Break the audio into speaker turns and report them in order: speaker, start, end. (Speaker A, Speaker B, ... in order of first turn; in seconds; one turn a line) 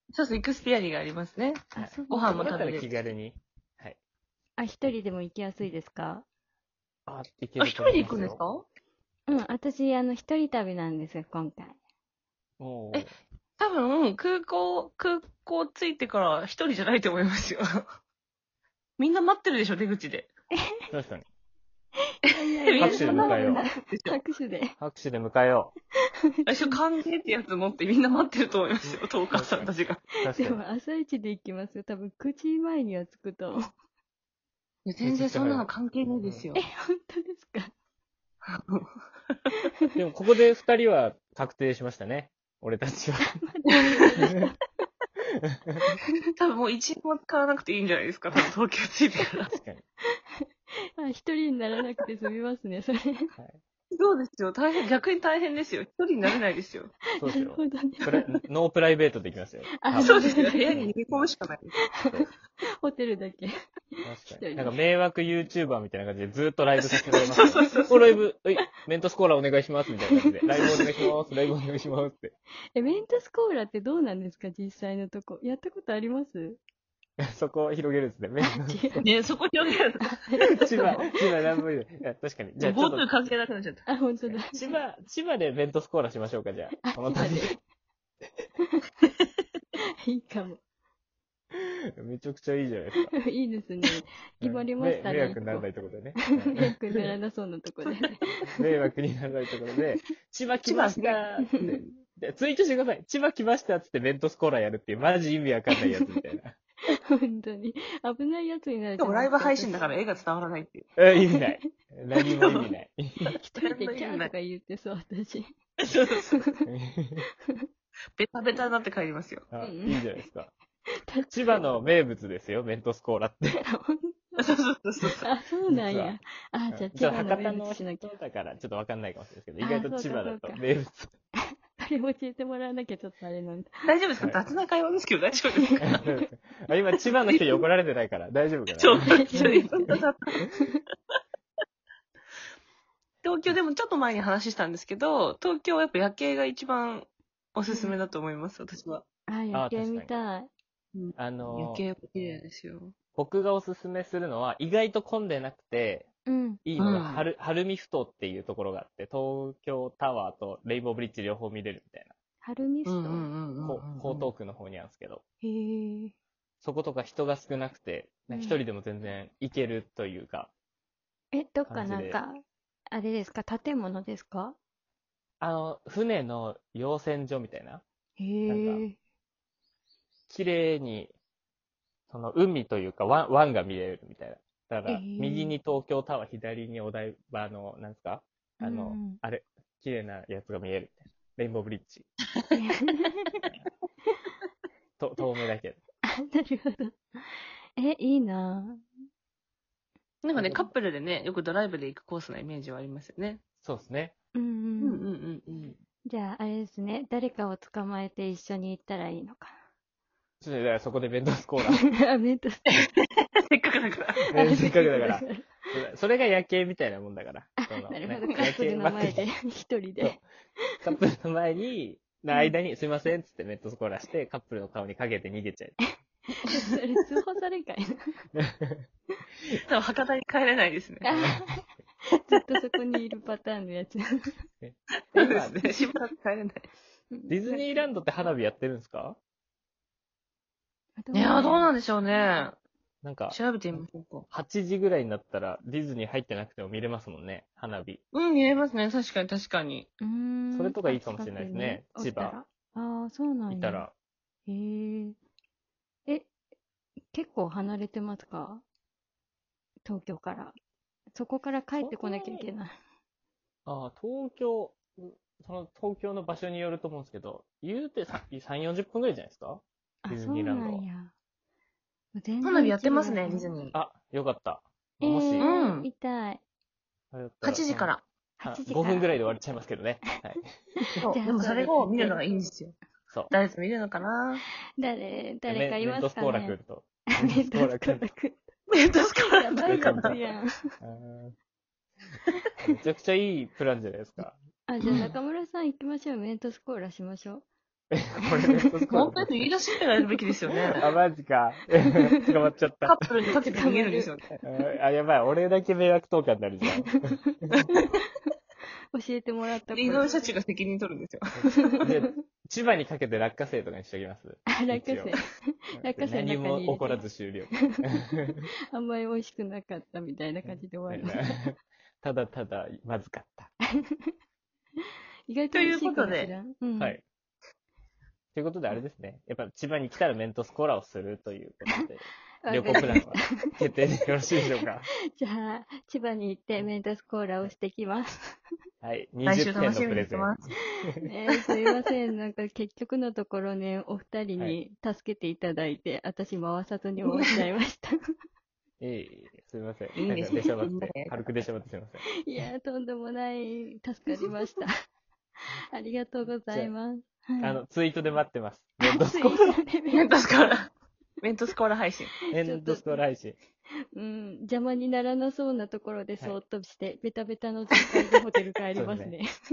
Speaker A: 0.1-2.9
Speaker B: 1.8-2.6
Speaker C: 1.8-4.0
Speaker B: 4.6-6.2
Speaker C: 7.1-8.4
Speaker A: 7.6-8.7
Speaker B: 9.3-11.8
Speaker C: 12.6-13.1
Speaker A: 13.6-17.8
Speaker A: 19.0-20.3
Speaker C: 20.9-21.2
Speaker B: 22.2-24.8
Speaker A: 22.6-24.2
Speaker C: 22.8-23.6
Speaker C: 24.8-25.7
Speaker B: 26.4-26.8
Speaker A: 26.5-30.0
Speaker C: 29.3-30.6
Speaker B: 30.3-33.7
Speaker A: 34.9-36.6
Speaker C: 35.0-35.7
Speaker C: 36.2-36.5
Speaker B: 36.5-37.7
Speaker A: 38.5-38.9
Speaker C: 39.9-43.4
Speaker B: 43.4-44.6
Speaker C: 45.7-46.0
Speaker A: 46.4-49.5
Speaker C: 49.5-49.8
Speaker B: 51.0-53.3
Speaker A: 54.0-56.9
Speaker C: 57.2-61.3
Speaker B: 57.2-58.3
Speaker B: 59.8-60.8
Speaker A: 59.9-61.8
Speaker B: 62.0-62.2
Speaker B: 62.8-63.5
Speaker C: 64.0-72.3
Speaker B: 64.3-64.8
Speaker A: 66.8-67.9
Speaker B: 67.5-68.0
Speaker B: 70.1-70.9
Speaker A: 70.6-70.9
Speaker B: 72.8-76.6
Speaker C: 77.3-79.1
Speaker B: 78.4-79.0
Speaker A: 79.0-81.1
Speaker B: 80.1-81.0
Speaker C: 80.5-83.1
Speaker A: 82.6-83.9
Speaker B: 83.9-84.6
Speaker C: 84.2-87.6
Speaker B: 86.8-87.6
Speaker B: 90.0-90.6
Speaker C: 91.5-93.1
Speaker B: 93.2-95.7
Speaker C: 94.4-96.7
Speaker B: 96.2-98.2
Speaker A: 97.9-98.2
Speaker C: 98.5-106.6
Speaker A: 100.6-101.8
Speaker B: 107.0-109.8
Speaker A: 109.0-110.8
Speaker C: 111.0-113.4
Speaker B: 111.3-111.7
Speaker A: 112.2-112.7
Speaker B: 113.2-115.5
Speaker A: 113.6-114.3
Speaker A: 115.9-116.3
Speaker B: 116.2-116.6
Speaker C: 116.7-117.2
Speaker A: 118.2-119.4
Speaker C: 119.5-120.5
Speaker B: 119.6-120.0
Speaker B: 121.0-121.6
Speaker C: 121.3-123.6
Speaker B: 123.6-124.4
Speaker A: 124.4-125.3
Speaker B: 125.1-128.1
Speaker C: 125.7-126.2
Speaker C: 126.7-131.1
Speaker B: 129.6-130.6
Speaker B: 131.8-133.7
Speaker A: 133.9-136.0
Speaker B: 135.7-136.2
Speaker C: 135.8-139.5
Speaker A: 138.8-140.4
Speaker B: 139.0-140.0
Speaker A: 143.2-149.0
Speaker B: 147.7-147.9
Speaker B: 149.3-150.5
Speaker C: 149.5-150.1
Speaker A: 150.9-152.9
Speaker C: 151.2-151.8
Speaker C: 153.2-156.1
Speaker B: 156.3-156.6
Speaker C: 156.7-162.1
Speaker A: 156.8-157.2
Speaker B: 162.4-163.3
Speaker A: 162.8-164.3
Speaker C: 163.6-165.2
Speaker B: 165.4-166.1
Speaker C: 166.6-170.5
Speaker B: 168.3-168.6
Speaker B: 171.3-172.4
Speaker C: 171.7-172.2
Speaker B: 172.9-174.6
Speaker C: 175.4-177.8
Speaker B: 178.2-179.0
Speaker C: 178.5-178.8
Speaker C: 180.3-181.1
Speaker C: 182.1-192.1
Speaker B: 184.9-185.5
Speaker B: 188.6-189.2
Speaker B: 192.5-193.4
Speaker C: 195.0-195.8
Speaker B: 196.1-198.8
Speaker A: 200.2-203.4
Speaker C: 200.3-200.7
Speaker C: 203.6-204.1
Speaker B: 204.3-205.0
Speaker A: 204.8-205.8
Speaker B: 206.1-209.6
Speaker C: 210.4-211.8
Speaker B: 211.7-212.7
Speaker A: 212.7-214.2
Speaker C: 214.3-219.3
Speaker B: 214.3-215.4
Speaker B: 217.6-220.2
Speaker C: 220.8-225.8
Speaker B: 226.4-228.2
Speaker C: 228.4-228.8
Speaker A: 229.7-231.1
Speaker B: 231.0-234.3
Speaker C: 234.6-235.6
Speaker A: 235.1-236.7
Speaker B: 237.1-237.8
Speaker C: 237.3-239.2
Speaker B: 241.0-242.4
Speaker A: 241.1-242.6
Speaker C: 243.0-243.4
Speaker A: 243.3-244.3
Speaker C: 244.3-248.0
Speaker A: 248.1-249.9
Speaker B: 250.0-253.8
Speaker C: 250.5-252.4
Speaker C: 253.5-253.9
Speaker B: 254.5-255.2
Speaker B: 257.1-258.6
Speaker B: 259.9-260.5
Speaker B: 261.1-262.7
Speaker C: 261.8-262.5
Speaker C: 263.6-270.8
Speaker B: 270.0-271.1
Speaker B: 272.1-273.5
Speaker A: 272.4-273.8
Speaker C: 273.7-275.5
Speaker B: 275.0-276.4
Speaker A: 275.4-275.9
Speaker C: 277.1-277.9
Speaker A: 277.4-278.0
Speaker B: 278.4-279.1
Speaker C: 278.4-280.4
Speaker B: 280.8-282.2
Speaker A: 281.0-282.8
Speaker A: 283.3-284.4
Speaker B: 284.8-286.6
Speaker C: 285.5-288.0
Speaker B: 287.2-288.5
Speaker A: 288.7-290.2
Speaker B: 289.2-290.5
Speaker C: 289.6-290.2
Speaker C: 290.8-291.4
Speaker C: 292.6-294.4
Speaker B: 294.7-297.5
Speaker A: 294.8-295.1
Speaker C: 297.9-299.4
Speaker B: 298.3-298.7
Speaker A: 298.9-300.8
Speaker C: 300.8-303.0
Speaker A: 302.9-304.3
Speaker B: 303.5-304.1
Speaker C: 304.4-307.0
Speaker B: 306.8-307.4
Speaker A: 307.6-307.9
Speaker B: 308.9-310.1
Speaker A: 309.7-311.9
Speaker C: 311.4-315.1
Speaker B: 311.5-312.1
Speaker B: 314.5-317.0
Speaker C: 315.8-318.4
Speaker B: 317.7-321.4
Speaker C: 320.4-323.5
Speaker B: 323.8-324.1
Speaker B: 325.3-327.0
Speaker A: 325.5-326.4
Speaker C: 328.4-334.9
Speaker B: 332.4-333.2
Speaker B: 335.1-338.4
Speaker C: 338.8-340.3
Speaker A: 339.2-340.5
Speaker B: 341.0-347.9
Speaker A: 347.1-347.4
Speaker C: 348.8-352.0
Speaker A: 350.0-351.2
Speaker B: 352.2-354.7
Speaker B: 355.7-357.6
Speaker C: 357.4-359.6
Speaker B: 358.8-360.1
Speaker A: 359.9-360.7
Speaker A: 361.2-362.1
Speaker C: 362.3-363.4
Speaker B: 362.4-363.0
Speaker B: 363.9-369.2
Speaker C: 368.8-369.1